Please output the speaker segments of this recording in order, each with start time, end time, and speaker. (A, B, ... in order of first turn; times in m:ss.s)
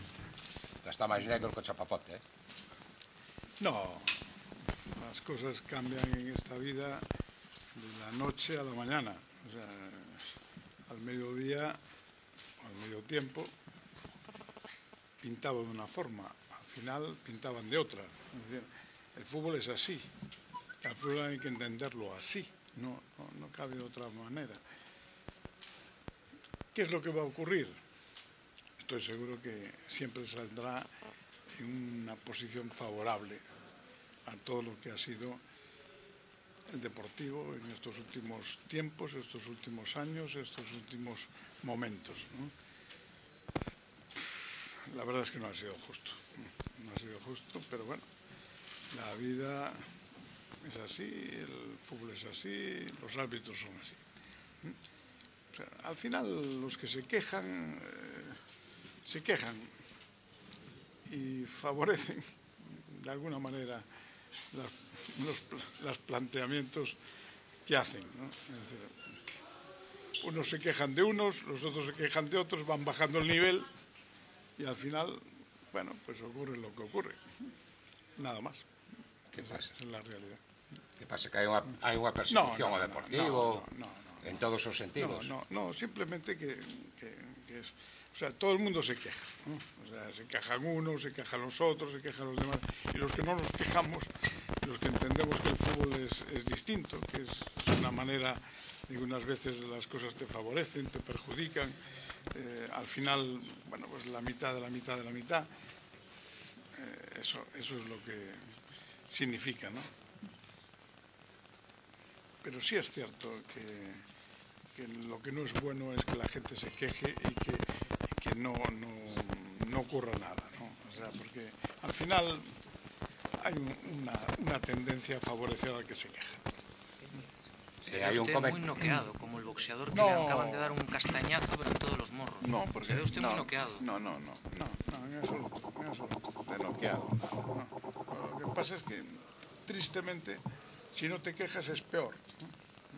0:00.8-0:02.2 A
0:03.6-0:04.3 B
0:04.9-0:07.1 B
0:07.7-0:10.3 B
0:10.9-0:11.8 B
0:12.6-0:13.5 B
0:15.2-0:20.1 B
0:20.8-0:24.6 B
0:26.7-0:27.8 B
0:28.8-0:30.9 B
0:31.5-0:33.4 B
0:34.2-0:35.4 B
0:36.7-0:42.5 B
0:44.8-0:48.1 B
0:48.9-0:49.9 B
0:50.6-0:54.0 B
0:55.5-0:58.4 B
0:59.0-0:59.7 B
1:01.1-1:03.9 B
1:04.5-1:07.0 B
1:07.7-1:09.2 B
1:10.2-1:13.7 B
1:14.6-1:17.3 B
1:18.2-1:18.7 B
1:19.3-1:20.4 B
1:19.4-1:19.6 A
1:21.0-1:23.7 A
1:22.3-1:24.4 B
1:24.2-1:25.3 A
1:25.0-1:41.8 B
1:42.3-1:45.5 B
1:46.7-1:48.6 B
1:49.1-1:49.9 B
1:52.4-1:54.0 B
1:54.7-2:02.6 B
2:03.4-2:06.4 B
2:07.8-2:13.8 C
2:07.9-2:08.7 A
2:09.9-2:11.0 B
2:12.4-2:20.4 B
2:20.9-2:22.5 B